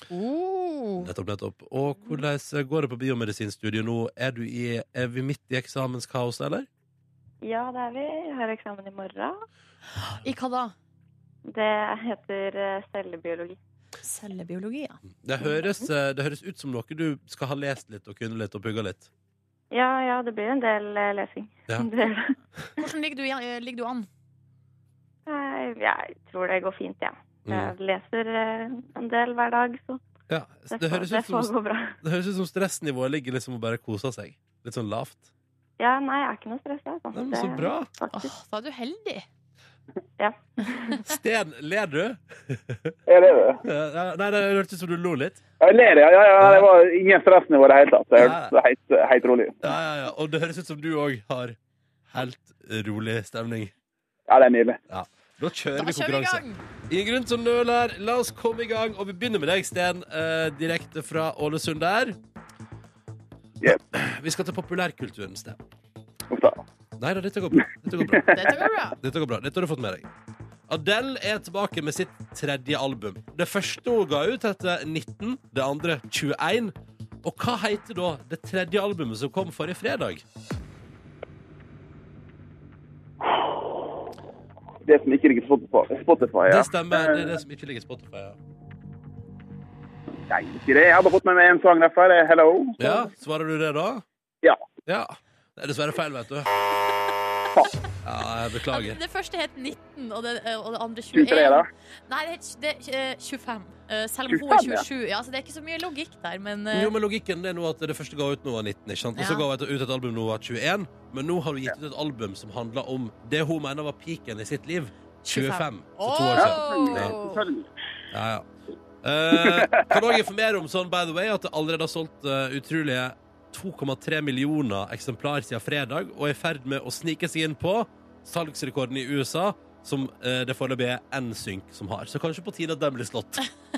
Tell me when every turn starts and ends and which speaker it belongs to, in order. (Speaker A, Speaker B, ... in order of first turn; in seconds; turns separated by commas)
Speaker A: 0.1-1.1, Speaker B: 1.0-6.7, Speaker C: 7.4-9.3, Speaker A: 10.1-10.7, Speaker C: 11.5-13.6, Speaker A: 14.0-15.0, Speaker B: 15.2-19.1, Speaker C: 19.7-22.3, Speaker A: 22.8-24.1, Speaker C: 25.3-30.0, Speaker B: 27.5-27.7, Speaker B: 30.3-35.3, Speaker C: 30.7-31.9, Speaker C: 35.8-38.3, Speaker B: 37.1-37.9, Speaker A: 38.1-39.3, Speaker C: 40.2-41.0, Speaker B: 41.0-43.0, Speaker D: 43.1-43.6, Speaker B: 43.6-45.4, Speaker D: 45.6-49.6, Speaker B: 46.4-46.7, Speaker B: 48.2-48.5, Speaker B: 49.6-51.6, Speaker B: 52.1-53.7, Speaker D: 54.3-54.8, Speaker B: 54.9-62.2, Speaker A: 55.8-56.6, Speaker B: 63.7-65.6, Speaker D: 66.3-66.6, Speaker B: 67.0-68.3, Speaker A: 68.3-69.0, Speaker B: 69.0-70.1, Speaker B: 70.7-80.2, Speaker D: 84.9-87.3, Speaker B: 86.5-88.4, Speaker D: 90.3-92.8, Speaker B: 92.8-94.0, Speaker B: 94.9-96.5, Speaker B: 98.0-99.0, Speaker A: 98.7-106.9, Speaker D: 101.1-101.7, Speaker D: 104.3-104.8, Speaker B: 106.7-117.1, Speaker A: 109.2-109.5, Speaker A: 115.2-117.4, Speaker D: 116.4-117.7, Speaker B: 118.1-118.5, Speaker B: 119.0-133.4, Speaker D: 119.4-119.9